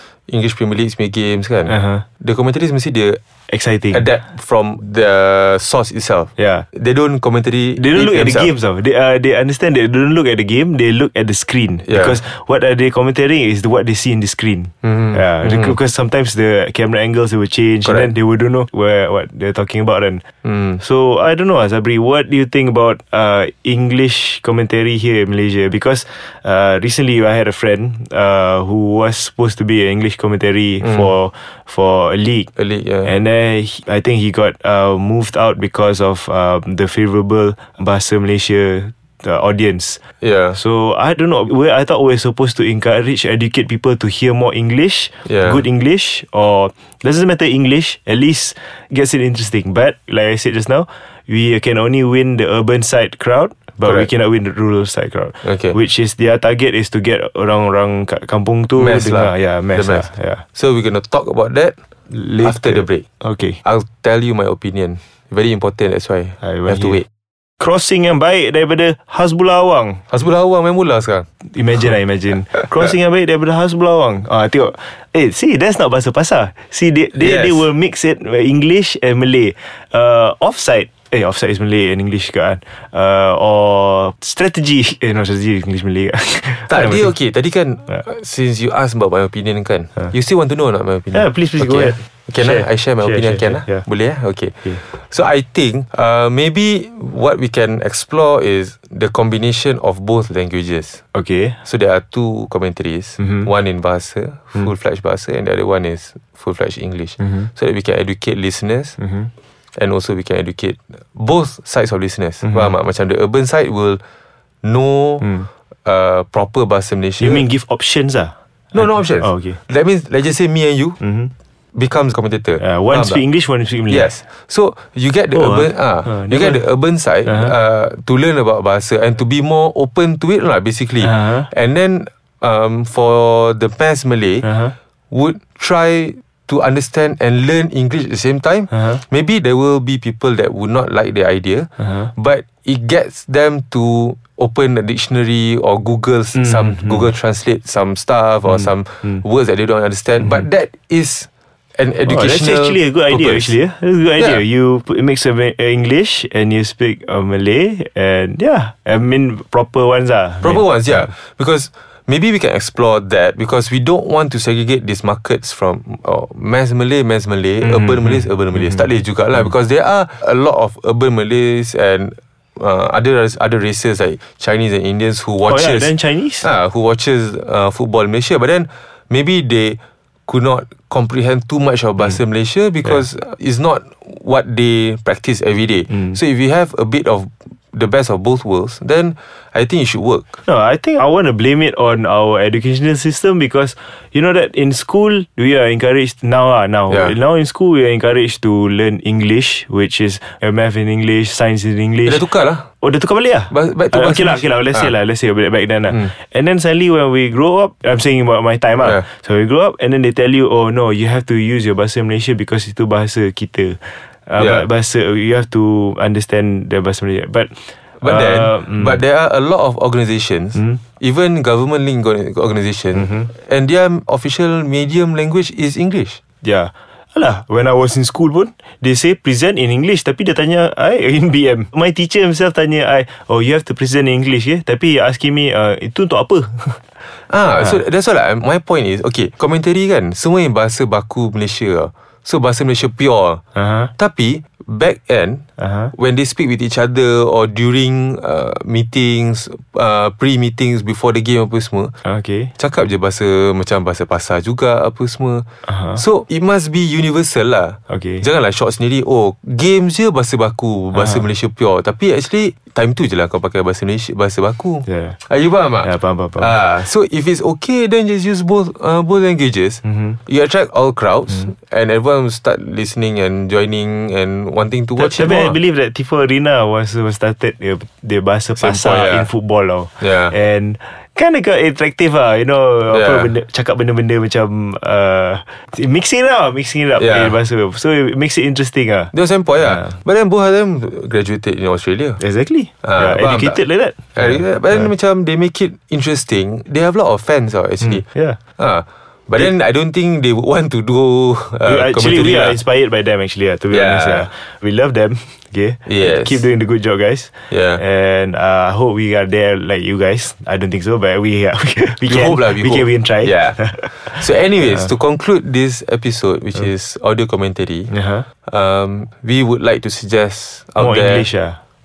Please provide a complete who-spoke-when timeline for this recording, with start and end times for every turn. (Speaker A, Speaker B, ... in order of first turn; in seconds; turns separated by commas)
Speaker A: 0.3-3.2, Speaker B: 1.7-2.0, Speaker B: 3.5-4.0, Speaker A: 3.9-8.5, Speaker B: 6.4-6.7, Speaker B: 7.8-20.2, Speaker A: 11.9-12.2, Speaker A: 14.9-15.7, Speaker A: 20.4-20.8, Speaker B: 20.8-32.5, Speaker A: 32.6-33.1, Speaker B: 33.0-40.0, Speaker A: 40.2-40.6, Speaker B: 40.5-60.4, Speaker A: 45.2-45.6, Speaker A: 55.4-55.8, Speaker A: 58.8-61.8, Speaker B: 62.1-63.6, Speaker A: 62.4-63.0, Speaker A: 63.6-67.1, Speaker B: 66.4-67.0, Speaker B: 67.6-70.0, Speaker A: 70.1-71.3, Speaker B: 71.4-87.1, Speaker A: 77.2-77.6, Speaker A: 86.7-101.0, Speaker B: 91.1-93.8, Speaker B: 101.1-101.6, Speaker A: 101.7-109.0, Speaker B: 103.2-103.5, Speaker B: 107.2-107.5, Speaker B: 109.0-109.3, Speaker A: 109.7-114.0, Speaker A: 114.6-115.3, Speaker B: 115.2-115.5, Speaker A: 115.8-117.5, Speaker B: 117.2-119.6, Speaker A: 118.8-121.0, Speaker B: 121.0-121.3, Speaker A: 121.8-123.2, Speaker B: 122.6-124.1, Speaker A: 123.9-134.6, Speaker B: 125.3-126.6, Speaker B: 127.3-127.5, Speaker B: 131.0-131.5, Speaker B: 134.4-134.7, Speaker A: 135.1-153.6, Speaker B: 138.7-139.0, Speaker B: 141.8-142.1, Speaker B: 146.4-147.0, Speaker B: 152.1-161.1, Speaker A: 160.4-190.4, Speaker B: 167.6-168.2, Speaker B: 175.4-176.5, Speaker B: 190.4-202.2, Speaker A: 202.1-202.7, Speaker B: 202.8-219.0, Speaker A: 203.5-204.9, Speaker A: 214.4-214.7, Speaker A: 218.0-226.2, Speaker B: 223.0-223.3, Speaker B: 226.4-236.8, Speaker A: 237.2-243.4, Speaker B: 243.6-243.9, Speaker A: 244.0-245.4, Speaker B: 245.6-245.9, Speaker A: 245.9-251.9, Speaker B: 252.0-252.5, Speaker A: 252.6-275.6, Speaker B: 255.7-256.0, Speaker B: 257.9-258.3, Speaker B: 264.9-265.2, Speaker B: 265.8-266.6, Speaker B: 275.0-289.9, Speaker A: 278.6-279.3, Speaker A: 280.0-280.3, Speaker A: 282.9-283.3, Speaker A: 287.0-287.4, Speaker A: 289.1-292.2, Speaker B: 292.2-294.9, Speaker A: 292.8-293.6, Speaker A: 294.1-298.0, Speaker B: 297.8-298.4, Speaker A: 298.6-302.6, Speaker B: 301.6-314.2, Speaker A: 303.7-304.3, Speaker A: 305.9-306.4, Speaker A: 307.5-307.8, Speaker A: 312.0-317.9, Speaker B: 317.9-318.3, Speaker A: 318.4-321.3, Speaker B: 320.8-321.6